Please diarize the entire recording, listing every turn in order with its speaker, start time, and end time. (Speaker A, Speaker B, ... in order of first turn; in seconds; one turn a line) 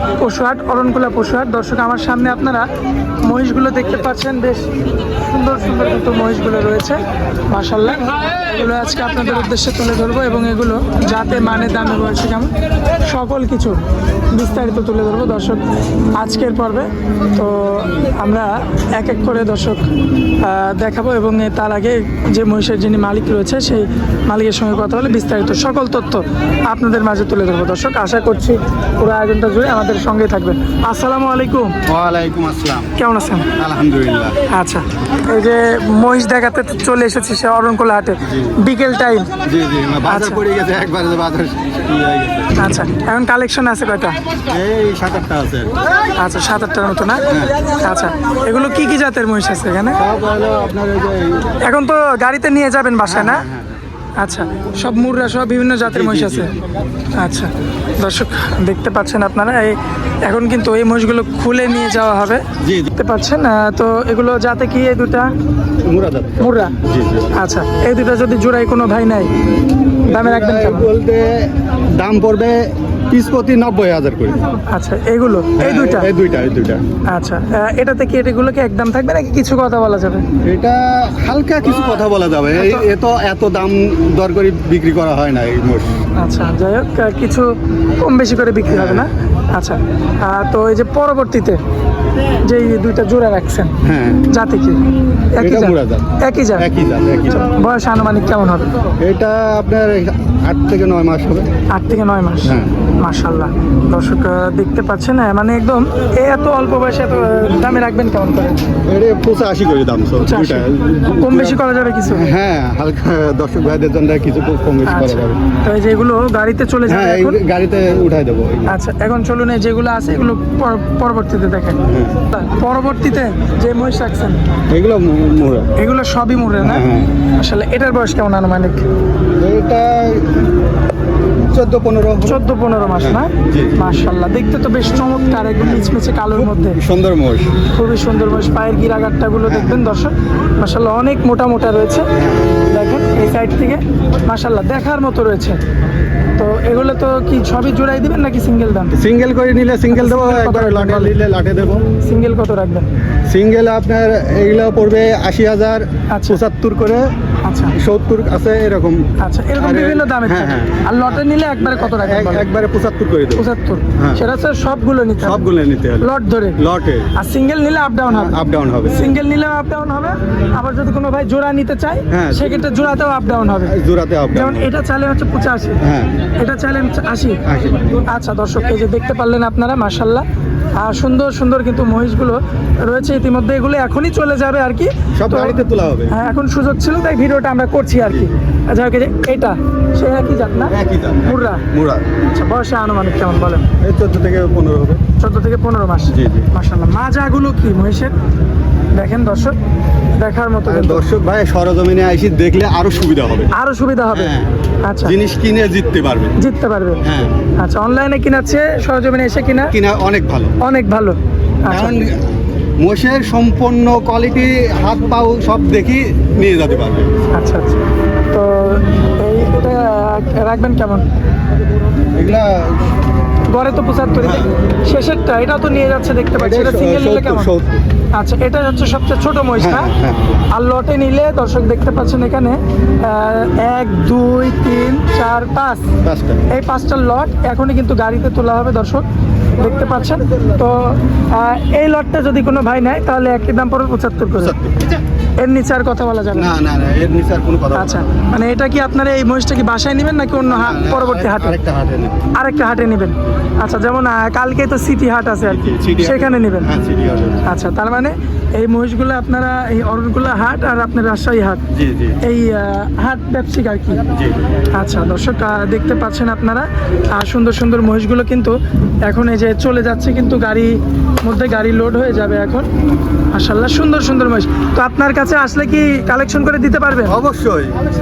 Speaker A: 0.2-2.7
Speaker A: 3.2-4.7
Speaker A: 5.2-12.5
Speaker A: 13.0-13.8
Speaker A: 14.3-15.6
Speaker A: 16.1-19.9
Speaker A: 20.4-31.7
Speaker B: 31.9-32.9
Speaker A: 33.0-33.5
Speaker B: 33.5-34.4
Speaker A: 34.5-39.3
Speaker B: 38.2-38.6
Speaker B: 39.5-42.5
Speaker A: 40.1-40.4
Speaker A: 42.6-44.2
Speaker B: 44.5-45.7
Speaker A: 46.1-50.0
Speaker B: 47.3-47.5
Speaker B: 50.0-51.5
Speaker A: 51.6-53.5
Speaker B: 53.0-53.8
Speaker A: 54.2-56.5
Speaker B: 55.9-56.5
Speaker A: 57.1-62.4
Speaker B: 62.6-62.9
Speaker A: 62.9-65.3
Speaker B: 65.8-67.3
Speaker A: 66.4-66.8
Speaker A: 67.3-69.3
Speaker B: 70.0-74.4
Speaker A: 70.1-70.9
Speaker A: 74.7-76.1
Speaker B: 75.5-76.8
Speaker A: 77.1-80.2
Speaker B: 80.4-85.9
Speaker A: 82.5-82.8
Speaker A: 86.2-91.6
Speaker B: 88.7-89.1
Speaker A: 92.4-93.7
Speaker B: 93.8-94.3
Speaker A: 94.3-96.7
Speaker B: 95.4-97.5
Speaker A: 97.3-98.7
Speaker B: 99.0-101.5
Speaker A: 101.7-108.5
Speaker B: 102.4-102.7
Speaker B: 108.8-115.4
Speaker A: 110.2-112.2
Speaker A: 114.9-117.4
Speaker B: 116.9-118.8
Speaker A: 118.7-124.4
Speaker B: 121.8-122.2
Speaker B: 124.7-125.7
Speaker A: 125.8-126.8
Speaker B: 126.6-127.1
Speaker A: 127.4-128.8
Speaker B: 129.4-130.4
Speaker B: 131.5-132.4
Speaker A: 132.2-136.8
Speaker B: 133.0-133.7
Speaker B: 135.6-137.5
Speaker A: 137.7-142.1
Speaker B: 139.5-139.8
Speaker B: 142.1-142.5
Speaker A: 142.7-145.6
Speaker A: 146.4-148.9
Speaker B: 148.9-151.8
Speaker A: 149.9-151.1
Speaker A: 152.0-152.9
Speaker B: 153.3-157.1
Speaker A: 156.1-156.4
Speaker A: 157.4-157.7
Speaker B: 157.7-159.0
Speaker A: 159.2-162.4
Speaker B: 159.6-164.2
Speaker A: 163.3-165.4
Speaker B: 165.2-167.1
Speaker A: 166.0-166.6
Speaker A: 167.1-168.3
Speaker B: 168.1-169.1
Speaker A: 168.9-173.7
Speaker B: 172.1-172.8
Speaker B: 173.6-174.7
Speaker A: 174.3-175.8
Speaker B: 175.8-176.1
Speaker A: 176.4-177.4
Speaker B: 177.4-177.8
Speaker A: 178.0-180.2
Speaker A: 180.8-191.6
Speaker B: 185.2-186.2
Speaker B: 188.0-188.3
Speaker B: 190.7-192.1
Speaker A: 192.2-193.7
Speaker B: 193.8-195.0
Speaker A: 195.2-198.1
Speaker B: 196.1-196.5
Speaker A: 198.9-199.6
Speaker A: 200.2-201.0
Speaker B: 200.7-203.5
Speaker A: 203.5-204.3
Speaker B: 204.1-204.5
Speaker A: 204.8-205.1
Speaker B: 205.0-206.4
Speaker A: 206.4-207.0
Speaker B: 207.0-207.4
Speaker A: 207.6-209.7
Speaker B: 209.7-210.6
Speaker A: 210.6-211.9
Speaker B: 211.7-212.3
Speaker B: 212.8-217.1
Speaker A: 217.3-221.0
Speaker B: 222.1-222.9
Speaker A: 223.5-227.5
Speaker B: 224.2-224.5
Speaker B: 226.4-227.8
Speaker A: 228.1-229.9
Speaker B: 229.6-230.4
Speaker A: 230.5-235.9
Speaker B: 236.0-236.4
Speaker A: 236.5-244.5
Speaker B: 244.3-244.9
Speaker A: 245.4-246.5
Speaker B: 246.3-248.0
Speaker A: 247.7-251.6
Speaker B: 250.4-252.3
Speaker A: 252.3-256.7
Speaker B: 255.4-257.4
Speaker A: 257.4-261.6
Speaker B: 261.7-262.2
Speaker A: 262.2-264.0
Speaker B: 264.1-264.4
Speaker A: 264.7-268.5
Speaker A: 269.1-272.7
Speaker A: 273.3-277.2
Speaker B: 277.1-277.8